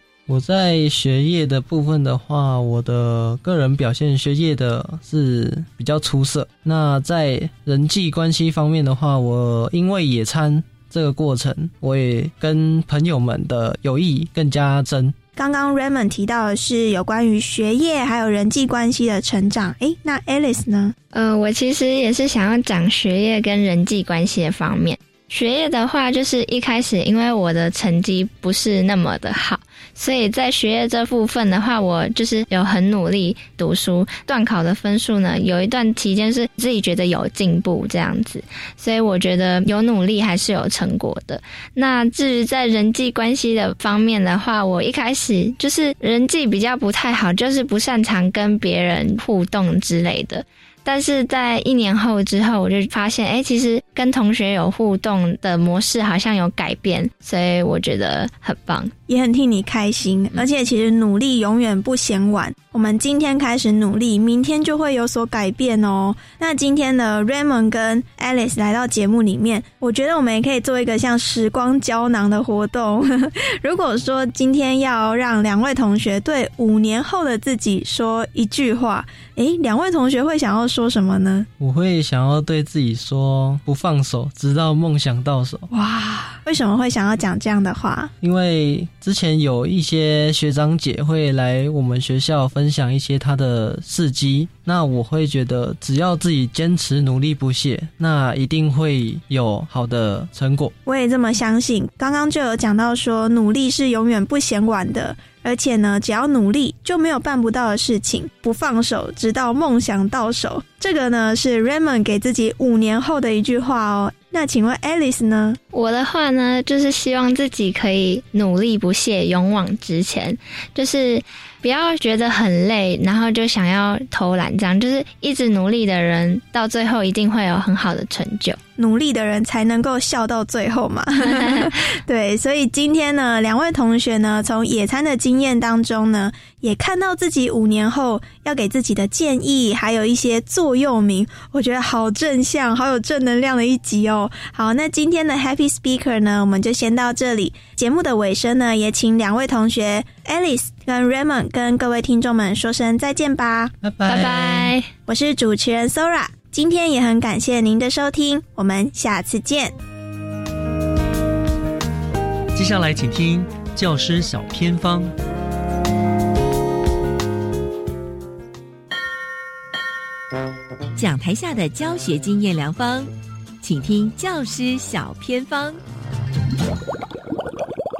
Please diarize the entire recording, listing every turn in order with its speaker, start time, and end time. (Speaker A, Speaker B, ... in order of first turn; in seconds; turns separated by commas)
Speaker A: 0.3-15.1, Speaker B: 15.3-20.9, Speaker C: 21.1-58.9, Speaker B: 59.1-81.5, Speaker A: 81.6-85.7, Speaker B: 85.7-88.1, Speaker A: 88.2-100.7, Speaker B: 100.8-115.6, Speaker C: 115.7-128.6, Speaker B: 128.8-153.7, Speaker C: 131.3-131.6, Speaker A: 153.8-154.7, Speaker C: 154.0-154.9, Speaker B: 155.1-159.7, Speaker D: 162.5-165.1, Speaker E: 170.9-175.8